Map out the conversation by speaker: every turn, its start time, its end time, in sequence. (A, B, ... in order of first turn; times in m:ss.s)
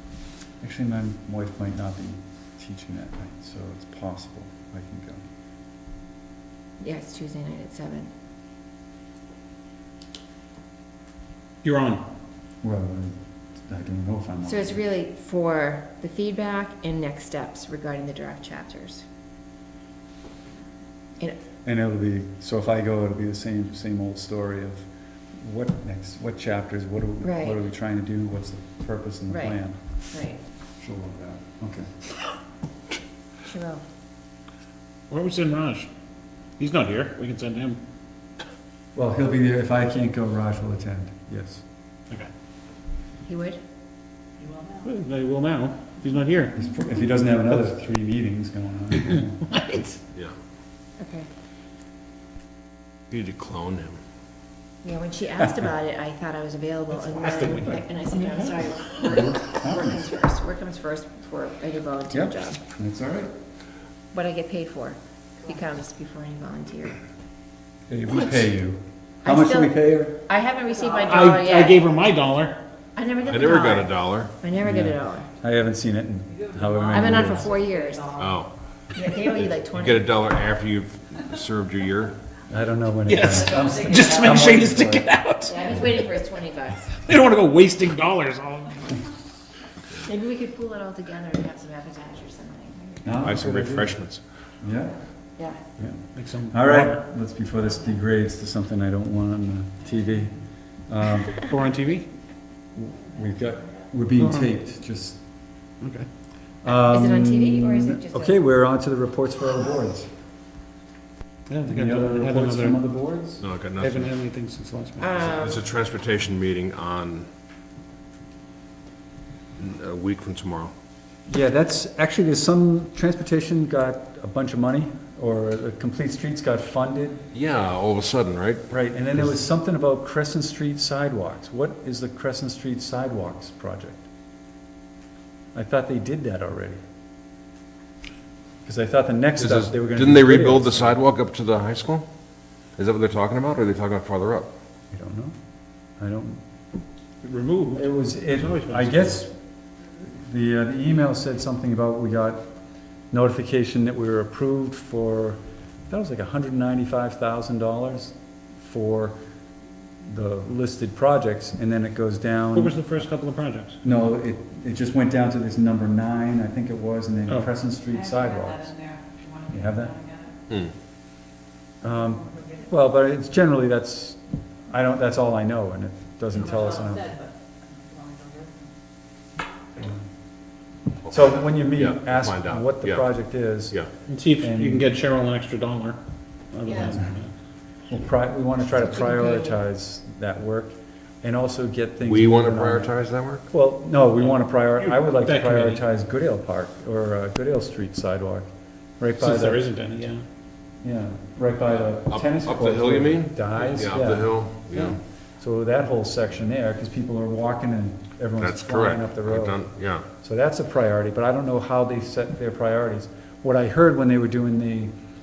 0:00.6-0:05.2 A
0:06.8-0:08.1 B
0:11.6-0:12.1 C
0:12.6-0:14.8 A
0:14.4-0:19.0 B
0:21.6-0:24.8 A
0:25.4-0:29.8 A
0:27.2-0:27.6 B
0:29.3-0:29.6 B
0:30.1-0:30.4 B
0:30.8-0:31.9 A
0:33.4-0:33.8 B
0:35.1-0:35.9 C
0:36.6-0:37.8 C
0:39.0-0:41.6 A
0:43.2-0:43.6 B
0:44.8-0:46.6 C
0:46.5-0:50.0 A
0:51.0-0:51.3 B
0:53.1-0:54.0 D
0:54.8-1:02.6 B
0:57.0-0:58.7 C
0:59.1-1:00.1 A
1:02.1-1:03.3 A
1:04.1-1:07.0 B
1:07.9-1:10.2 A
1:09.2-1:11.8 B
1:11.1-1:12.6 C
1:13.0-1:15.3 B
1:13.3-1:14.3 D
1:14.6-1:17.5 A
1:16.9-1:18.2 B
1:18.2-1:18.5 D
1:18.9-1:20.1 B
1:19.4-1:22.2 D
1:22.5-1:25.1 A
1:23.1-1:25.9 C
1:25.5-1:27.1 B
1:27.1-1:29.0 C
1:30.0-1:33.3 B
1:33.0-1:34.0 A
1:33.2-1:34.2 D
1:34.6-1:35.0 A
1:35.8-1:40.4 A
1:36.2-1:37.0 C
1:40.9-1:41.5 A
1:41.5-1:42.1 C
1:42.8-1:45.2 A
1:44.2-1:44.5 C
1:45.8-1:46.1 C
1:46.6-1:50.1 A
1:46.9-1:48.4 B
1:51.5-1:52.8 C
1:51.7-1:53.4 A
1:53.4-1:54.1 D
1:53.8-1:55.3 C
1:55.0-1:55.6 B
1:55.2-1:57.3 D
1:59.6-2:00.7 D
2:01.3-2:07.3 A
2:07.3-2:09.3 D
2:08.7-2:14.0 A
2:15.5-2:16.8 A
2:18.6-2:21.0 A
2:19.4-2:22.1 D
2:22.8-2:24.5 D
2:24.9-2:25.4 A
2:26.0-2:26.4 A
2:27.2-2:29.2 C
2:27.8-2:29.3 A
2:30.0-2:32.5 A
2:33.1-2:39.2 A
2:40.0-2:43.1 A
2:42.5-2:43.8 C
2:43.8-2:48.8 A
2:49.5-2:50.1 A
2:51.8-2:57.2 A
3:01.1-3:03.8 A
3:01.7-3:03.1 D
3:04.1-3:06.0 C
3:04.4-3:04.9 A
3:06.5-3:07.3 C
3:07.9-3:12.9 A
3:09.0-3:09.6 B
3:12.0-3:13.5 D
3:13.5-3:18.5 A
3:14.8-3:15.8 C
3:19.0-3:19.6 A
3:19.2-3:20.2 C
3:20.8-3:24.9 A
3:22.1-3:25.0 D
3:25.4-3:29.6 A
3:28.4-3:30.1 D
3:30.2-3:34.9 A